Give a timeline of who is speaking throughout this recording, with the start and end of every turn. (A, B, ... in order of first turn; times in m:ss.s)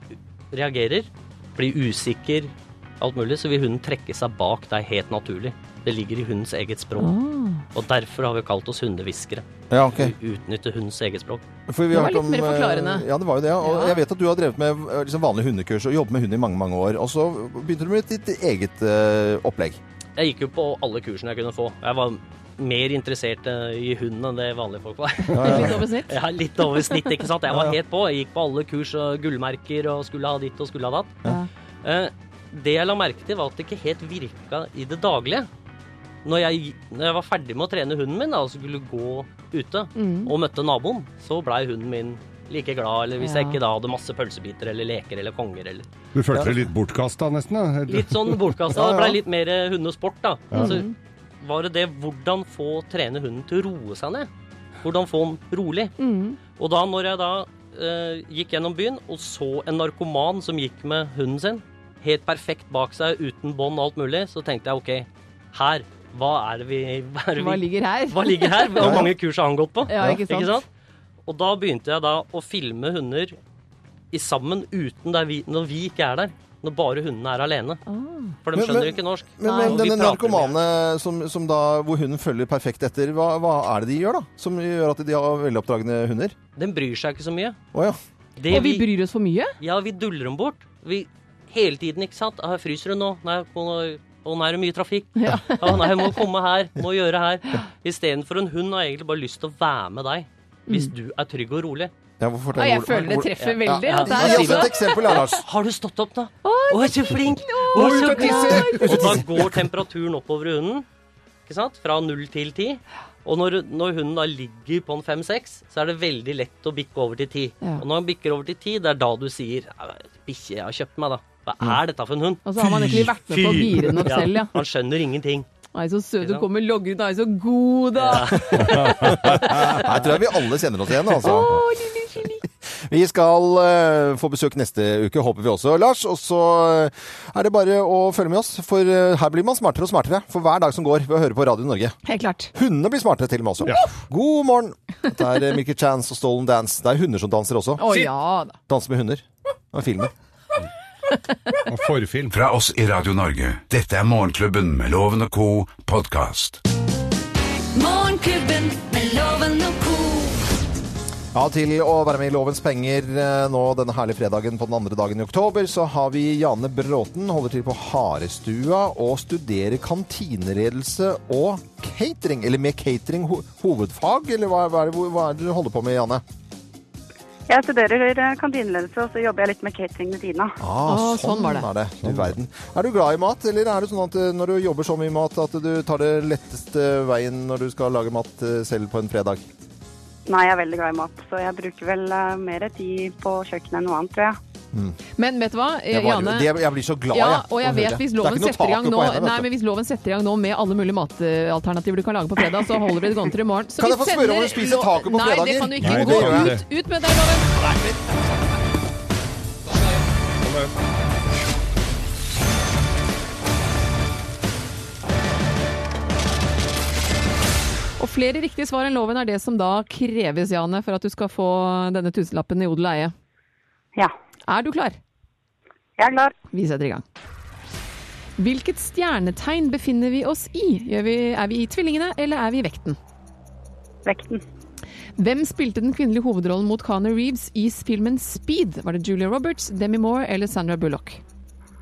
0:00.5-0:07.1 A
0:07.0-0:07.6 B
0:07.7-0:11.4 A
0:09.7-0:10.1 C
0:11.7-0:19.8 C
0:11.9-0:13.1 B
0:13.6-0:14.0 B
0:20.2-0:31.2 A
0:25.3-0:25.8 C
0:25.4-0:26.2 B
0:27.5-0:27.8 C
0:31.8-0:35.5 A
0:36.2-0:45.9 A
0:40.0-0:40.3 B
0:43.2-0:43.6 B
0:46.1-0:48.6 D
0:47.9-0:50.9 A
0:48.7-0:49.2 C
0:50.5-0:50.9 B
0:51.4-0:54.3 A
0:54.8-0:55.9 A
0:56.0-0:56.4 B
0:56.6-1:10.6 A
1:07.4-1:09.1 B
1:08.8-1:09.1 C
1:09.9-1:10.6 B
1:09.9-1:10.2 C
1:11.2-1:13.3 A
1:14.1-1:17.8 A
1:17.9-1:18.4 B
1:18.4-1:20.6 A
1:18.5-1:26.4 C
1:19.4-1:19.8 B
1:26.6-1:27.6 A
1:28.4-1:28.9 A
1:28.5-1:29.5 B
1:29.6-1:41.9 A
1:35.2-1:35.9 B
1:42.2-1:45.4 C
1:42.6-1:45.2 B
1:43.4-1:50.8 A
1:46.4-1:49.1 B
1:47.8-1:48.8 D
1:48.2-1:49.5 C
1:51.4-2:05.5 A
2:02.4-2:04.5 B
2:05.7-2:09.8 B
2:08.0-2:08.9 A
2:08.7-2:11.6 C
2:08.8-2:09.8 D
2:11.2-2:12.4 B
2:12.6-2:22.0 C
2:22.0-2:22.5 B
2:22.5-2:28.0 C
2:27.8-2:28.6 B
2:28.7-2:30.1 C
2:31.7-2:32.4 D
2:32.3-2:36.6 E
2:37.7-2:40.4 F
2:41.3-2:56.2 C
2:57.5-3:00.6 G
3:00.6-3:09.4 C
3:00.9-3:01.7 B
3:02.0-3:02.3 D
3:10.2-3:14.4 G
3:15.2-3:16.5 B
3:15.9-3:19.5 C
3:17.1-3:27.6 B
3:23.8-3:26.5 C
3:25.8-3:26.6 D
3:30.4-3:30.7 D
3:38.0-3:43.1 B
3:44.5-3:45.0 B
3:46.0-3:46.3 G
3:46.5-3:47.0 B
3:48.4-3:53.0 B
3:54.0-3:54.4 G
3:55.2-4:01.2 B